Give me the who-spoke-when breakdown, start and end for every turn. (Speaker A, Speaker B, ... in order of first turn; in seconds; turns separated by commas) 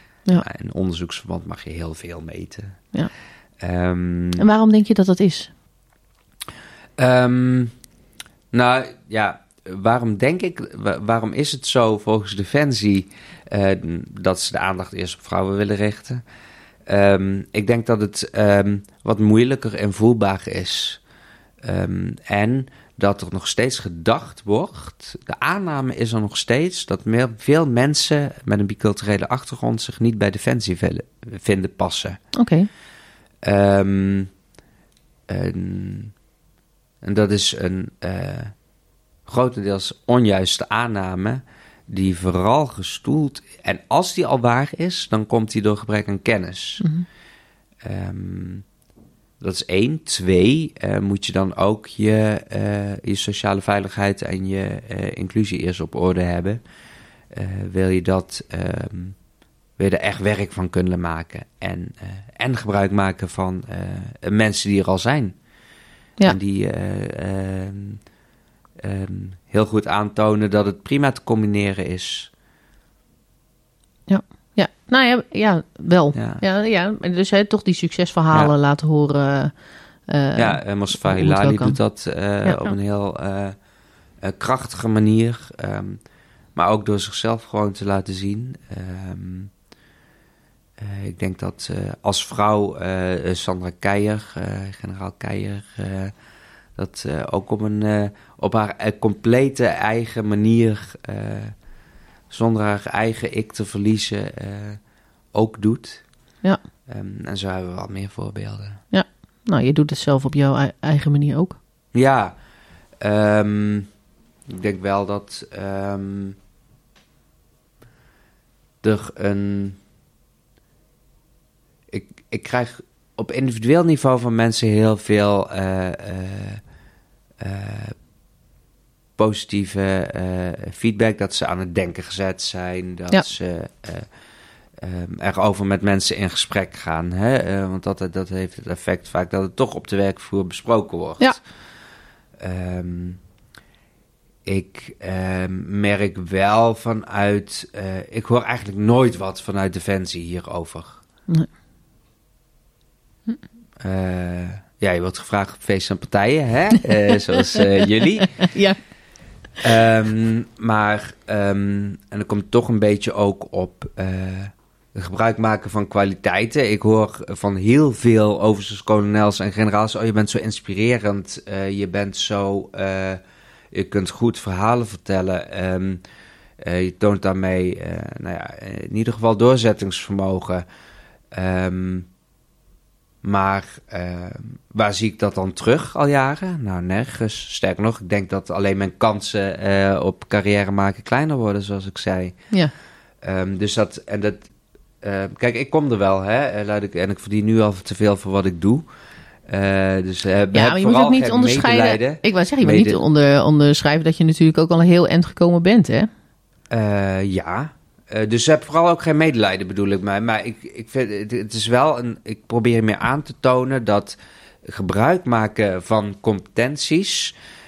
Speaker A: 0.4-2.8, Speaker A: 3.6-4.5, Speaker B: 4.4-5.5, Speaker A: 7.0-7.7, Speaker A: 8.5-16.2, Speaker A: 16.9-21.0, Speaker A: 21.6-32.2, Speaker B: 32.3-32.7, Speaker A: 33.4-34.3, Speaker A: 35.3-36.1, Speaker A: 37.0-38.5, Speaker A: 39.2-46.9, Speaker B: 46.8-47.0, Speaker A: 47.8-48.6, Speaker A: 49.4-56.6, Speaker A: 57.3-59.2, Speaker A: 59.8-65.3, Speaker A: 66.2-68.0, Speaker A: 68.8-72.3, Speaker B: 74.1-79.5, Speaker A: 76.1-76.4, Speaker B: 80.1-81.8, Speaker A: 80.3-83.5, Speaker A: 84.2-86.0, Speaker A: 86.5-89.5, Speaker A: 90.8-96.1, Speaker A: 96.8-101.5, Speaker A: 102.3-104.8, Speaker A: 105.3-106.0, Speaker A: 106.9-108.8, Speaker B: 108.9-111.6, Speaker A: 111.9-112.3, Speaker A: 113.0-113.9, Speaker A: 114.5-116.3, Speaker A: 118.8-119.8, Speaker A: 121.9-126.6, Speaker A: 127.4-127.9, Speaker A: 129.2-134.1, Speaker A: 134.8-141.4, Speaker A: 142.4-143.2, Speaker A: 144.4-151.0, Speaker A: 153.8-158.5, Speaker B: 158.4-158.8, Speaker A: 159.6-173.2, Speaker A: 173.7-176.0, Speaker A: 176.6-180.6, Speaker A: 181.3-182.1, Speaker A: 183.2-192.4, Speaker A: 193.2-194.4, Speaker A: 195.0-198.8, Speaker A: 199.5-203.0, Speaker B: 200.5-206.1, Speaker A: 206.7-217.3